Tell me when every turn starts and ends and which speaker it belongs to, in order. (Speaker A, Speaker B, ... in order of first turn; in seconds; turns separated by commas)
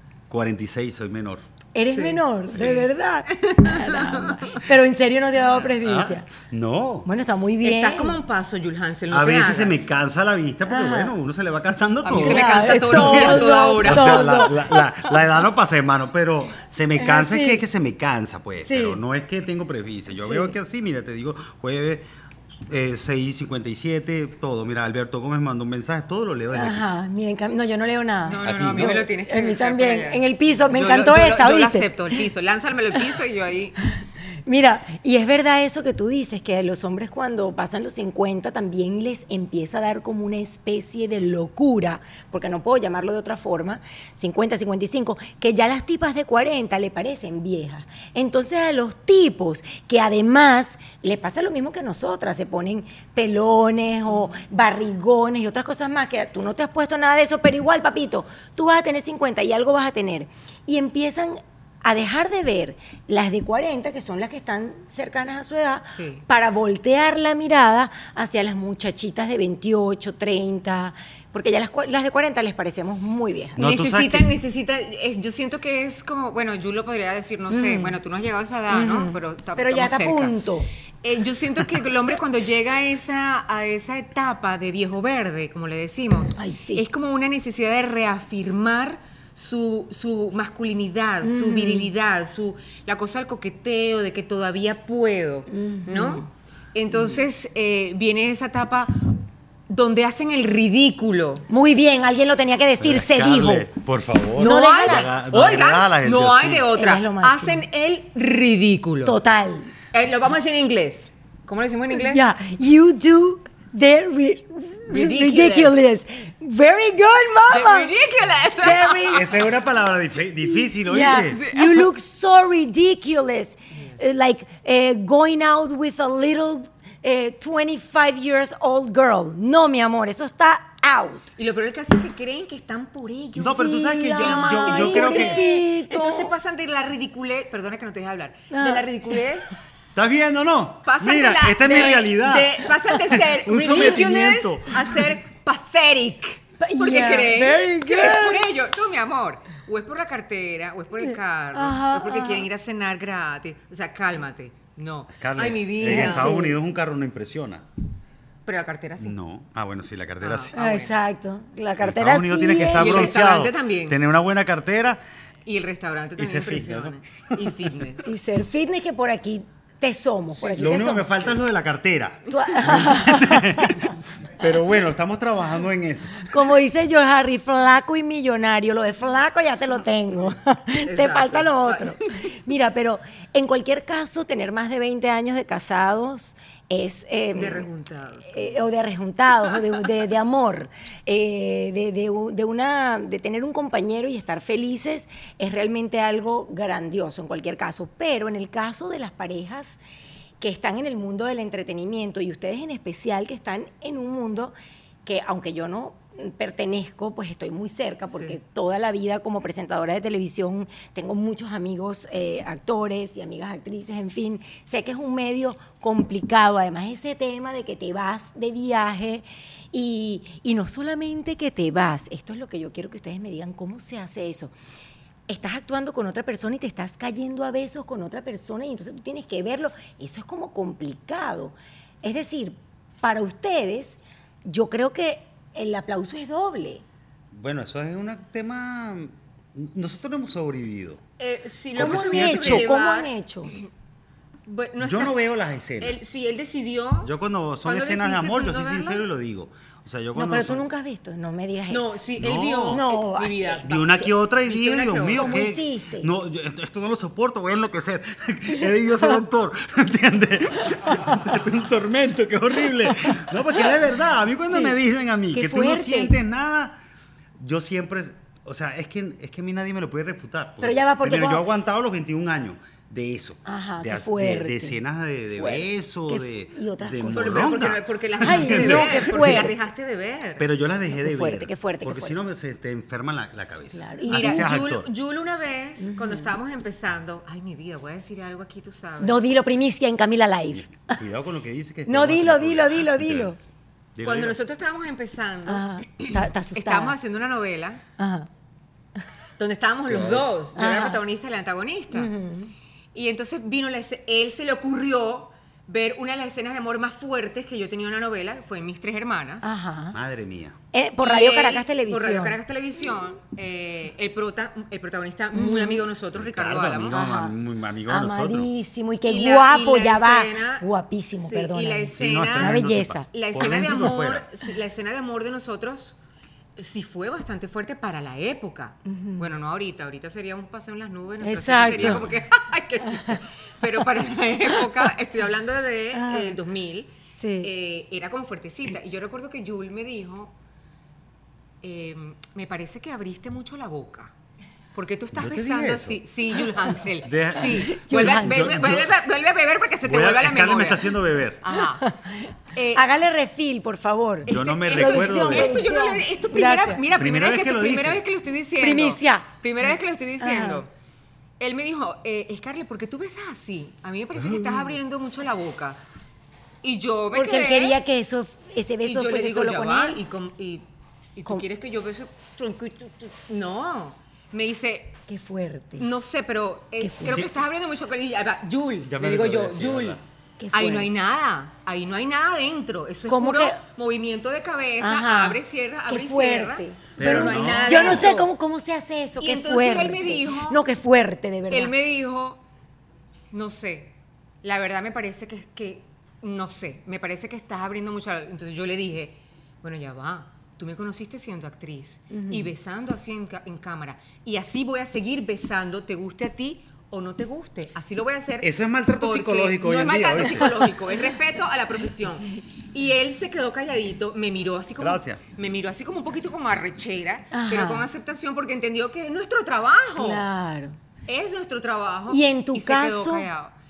Speaker A: 0.3-1.4, Speaker B: 1.8-6.3, Speaker C: 1.9-4.6, Speaker A: 5.6-7.1, Speaker B: 7.1-8.2, Speaker C: 7.6-9.9, Speaker A: 9.1-22.1, Speaker B: 10.7-11.1, Speaker C: 12.0-14.6, Speaker B: 12.1-14.6, Speaker B: 17.0-17.6, Speaker B: 18.6-19.0, Speaker B: 20.1-20.5, Speaker A: 22.7-26.9, Speaker B: 26.5-32.2, Speaker C: 28.3-33.8, Speaker A: 28.4-29.0, Speaker B: 34.5-73.7, Speaker C: 65.9-66.2, Speaker A: 73.6-74.3, Speaker C: 73.6-80.3, Speaker B: 77.5-78.0, Speaker B: 78.7-80.7, Speaker C: 81.0-101.5, Speaker B: 86.4-86.8, Speaker B: 91.2-91.9, Speaker B: 95.5-96.3, Speaker B: 101.5-103.7, Speaker A: 102.8-106.7, Speaker C: 104.4-109.2, Speaker B: 104.4-105.1, Speaker B: 106.8-107.6, Speaker B: 109.0-109.7, Speaker C: 109.9-112.2, Speaker B: 112.0-117.9, Speaker C: 114.9-115.9, Speaker C: 117.5-119.2, Speaker B: 118.6-119.3, Speaker A: 119.1-121.4, Speaker B: 120.7-131.3, Speaker C: 121.1-121.9, Speaker C: 131.4-139.5, Speaker A: 133.4-135.4, Speaker B: 133.4-136.3, Speaker B: 138.5-139.2, Speaker A: 139.9-142.6, Speaker C: 140.8-156.4, Speaker A: 143.1-145.0, Speaker B: 146.6-148.4, Speaker B: 151.1-152.5, Speaker A: 155.2-157.7, Speaker B: 155.8-156.6, Speaker C: 158.5-159.2, Speaker A: 159.0-160.5, Speaker C: 160.2-160.9, Speaker B: 160.5-163.1, Speaker A: 161.8-165.0, Speaker C: 162.7-164.0, Speaker C: 165.5-168.1, Speaker A: 166.2-167.6, Speaker B: 168.0-171.4, Speaker C: 170.4-170.8, Speaker A: 170.6-176.3, Speaker B: 172.3-173.9, Speaker B: 176.3-187.7, Speaker C: 180.8-182.0, Speaker C: 187.3-188.6, Speaker B: 188.3-199.8, Speaker B: 200.4-204.5, Speaker B: 205.1-224.5, Speaker B: 225.3-236.8, Speaker A: 237.3-241.0, Speaker C: 241.2-243.6, Speaker A: 241.8-242.7, Speaker B: 241.8-243.6, Speaker C: 244.5-245.2, Speaker A: 244.8-246.0, Speaker C: 245.8-247.1, Speaker A: 247.0-250.7, Speaker C: 247.6-249.1, Speaker B: 250.2-252.0, Speaker C: 251.7-255.4, Speaker A: 252.2-252.8, Speaker B: 252.7-254.1, Speaker A: 253.6-266.8, Speaker B: 255.2-256.1, Speaker B: 264.5-264.8, Speaker B: 265.3-266.1, Speaker A: 267.4-279.5, Speaker B: 270.6-271.4, Speaker B: 273.4-274.8, Speaker B: 275.3-277.5, Speaker C: 277.1-280.5, Speaker B: 278.2-279.5, Speaker A: 280.4-284.9, Speaker B: 280.9-282.2, Speaker B: 283.7-284.5, Speaker C: 284.1-289.2, Speaker B: 285.8-286.3, Speaker B: 289.0-291.0, Speaker A: 290.5-293.3, Speaker B: 291.9-293.4, Speaker A: 293.9-294.4, Speaker C: 294.0-297.8, Speaker B: 295.5-297.0, Speaker B: 298.0-298.3, Speaker C: 299.4-302.1, Speaker A: 299.9-300.3, Speaker B: 300.6-301.0, Speaker B: 301.9-302.5, Speaker C: 302.9-309.5, Speaker B: 309.4-310.0, Speaker A: 309.9-310.6, Speaker B: 310.7-312.4, Speaker C: 311.0-317.0, Speaker B: 315.3-315.8, Speaker A: 316.1-318.5, Speaker B: 316.9-317.4, Speaker B: 317.9-323.1, Speaker C: 319.1-320.7, Speaker C: 321.2-326.0, Speaker A: 321.9-324.2, Speaker C: 326.6-340.3, Speaker B: 328.9-329.3, Speaker B: 331.2-332.0, Speaker A: 331.6-332.1, Speaker B: 334.5-334.9, Speaker B: 335.9-336.4, Speaker B: 337.1-337.5, Speaker C: 341.6-344.1, Speaker C: 344.7-351.9, Speaker A: 345.2-346.0, Speaker A: 347.0-348.9, Speaker B: 347.6-348.6, Speaker A: 349.8-351.5, Speaker B: 351.8-356.8, Speaker C: 352.6-352.9, Speaker C: 354.3-360.7, Speaker A: 354.3-355.6, Speaker A: 356.9-358.0, Speaker B: 358.6-359.3, Speaker B: 360.2-360.6, Speaker C: 361.4-365.8, Speaker A: 364.2-364.7, Speaker C: 366.6-367.8, Speaker B: 367.1-370.0, Speaker C: 368.8-375.0, Speaker B: 375.1-375.9, Speaker C: 375.8-380.0, Speaker B: 376.8-377.3, Speaker A: 378.9-380.0, Speaker B: 380.4-380.9, Speaker C: 380.5-388.3, Speaker B: 383.1-383.6, Speaker B: 384.8-391.7, Speaker A: 387.0-388.1, Speaker C: 389.2-390.6, Speaker C: 391.5-392.4, Speaker C: 393.3-420.3, Speaker B: 402.1-402.5, Speaker A: 408.4-410.6, Speaker A: 414.8-415.2, Speaker B: 417.3-417.9, Speaker B: 420.0-420.8, Speaker C: 421.1-423.5, Speaker B: 422.1-423.3